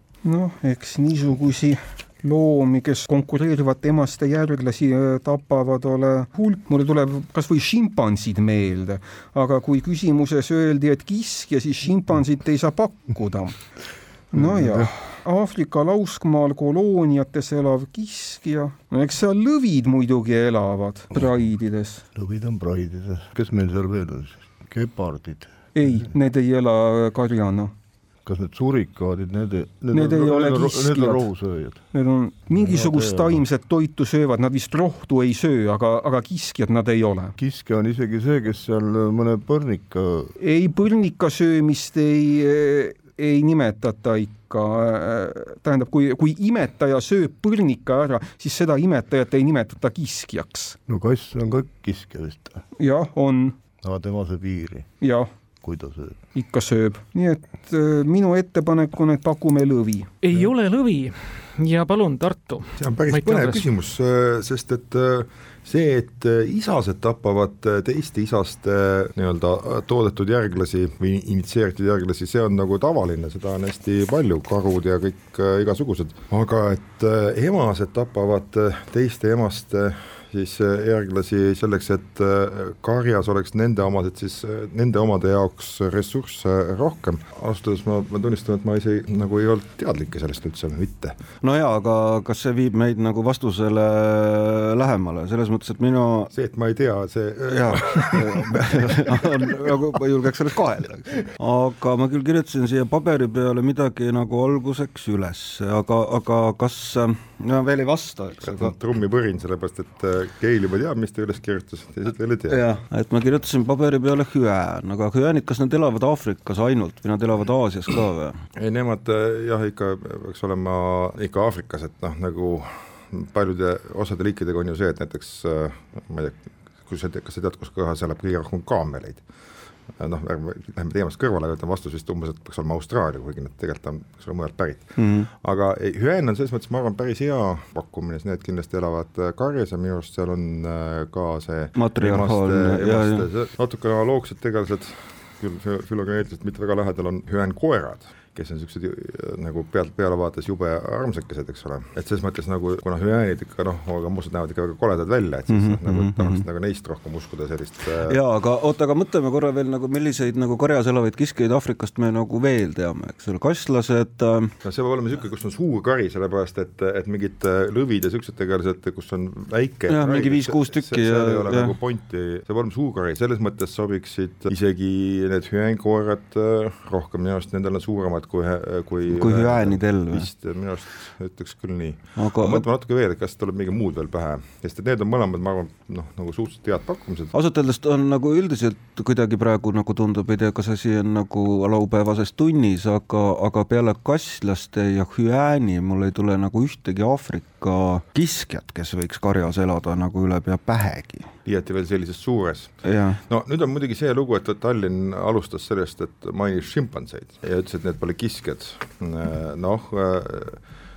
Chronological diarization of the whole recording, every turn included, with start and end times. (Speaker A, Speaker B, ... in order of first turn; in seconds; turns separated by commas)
Speaker A: 0.2-13.6, Speaker A: 14.3-22.0, Speaker B: 14.3-14.9, Speaker B: 22.1-26.1, Speaker A: 25.7-27.7, Speaker B: 28.2-31.8, Speaker A: 29.9-31.2, Speaker A: 31.9-37.4, Speaker B: 32.5-33.4, Speaker B: 37.4-40.3, Speaker A: 40.4-50.8, Speaker B: 50.9-52.6, Speaker A: 52.8-53.6, Speaker B: 53.8-54.9, Speaker A: 55.0-55.3, Speaker B: 55.6-56.2, Speaker A: 56.3-60.1, Speaker C: 60.2-63.6, Speaker D: 62.8-91.2, Speaker E: 91.4-96.3, Speaker D: 96.3-99.8, Speaker E: 97.5-108.7, Speaker D: 108.4-112.6, Speaker E: 112.5-118.4, Speaker D: 118.6-129.2, Speaker D: 129.9-158.2, Speaker E: 135.0-135.3, Speaker E: 141.8-143.3, Speaker E: 155.5-156.4, Speaker E: 158.0-164.5, Speaker D: 164.6-187.3, Speaker E: 169.9-171.8, Speaker E: 179.1-180.3, Speaker E: 182.2-182.6, Speaker E: 187.3-201.3, Speaker D: 201.4-202.8, Speaker E: 202.8-203.2, Speaker D: 203.3-210.6